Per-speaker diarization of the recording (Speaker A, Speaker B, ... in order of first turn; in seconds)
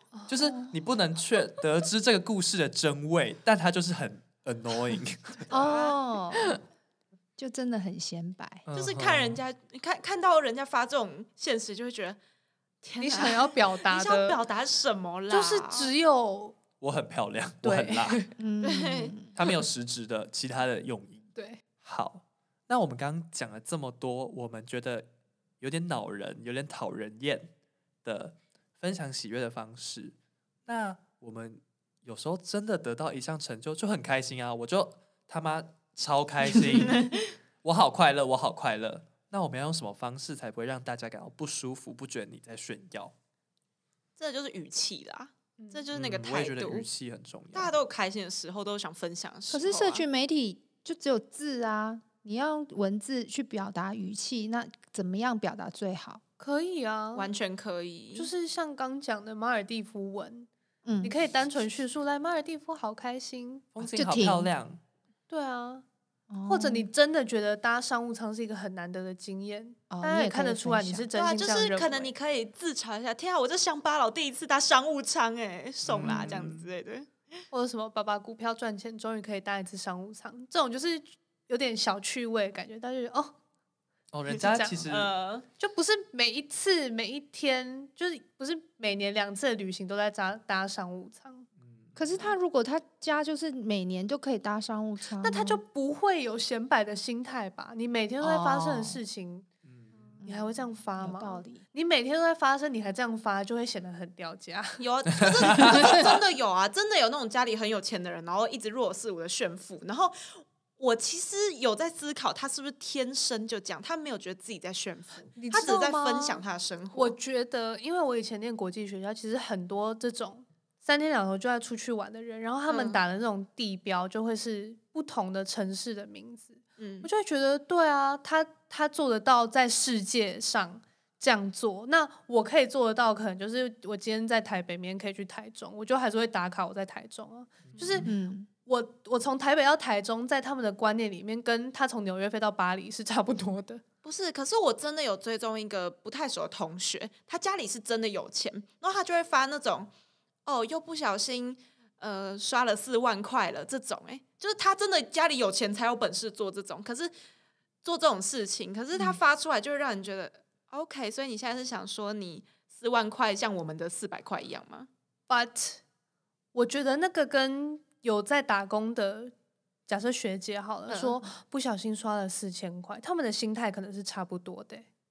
Speaker A: 0.3-5.5, 8.7-9.4, 16.8-18.2, 19.4-25.1, 25.6-27.5, 28.1-30.2, 30.7-37.1, 37.6-43.1, 45.9-47.8, 63.8-64.8, 75.8-76.7, 84.1-85.1, 91.6-92.0, 99.7-99.9, 105.3-105.9, 137.7-138.1
Speaker B: 5.5-6.0, 8.7-12.2, 12.8-15.9, 18.6-19.1, 36.9-37.2, 44.2-46.9, 47.5-50.1, 57.1-58.3, 71.2-77.3, 84.9-85.5, 104.8-117.2, 122.7-123.0, 126.8-127.1, 144.0-149.9, 150.5-157.1, 157.8-164.9, 170.9-171.3
Speaker C: 5.5-6.6, 7.4-8.6, 18.4-19.4, 49.5-56.2, 60.9-61.1, 63.8-64.5, 66.3-66.9, 69.9-71.1, 92.0-95.6, 98.2-99.0, 100.2-101.6, 138.0-138.5
Speaker D: 13.0-14.4, 15.3-16.6, 17.6-18.3, 21.4-21.6, 45.6-45.9, 56.4-57.3, 58.1-60.5, 61.0-63.7, 65.3-65.8, 66.5-72.1, 77.5-83.3, 84.3-84.9, 85.6-91.5, 95.2-99.5, 100.2-104.8, 105.5-106.0, 115.4-138.1, 138.7-143.8, 165.3-165.8, 166.5-169.3, 169.9-174.9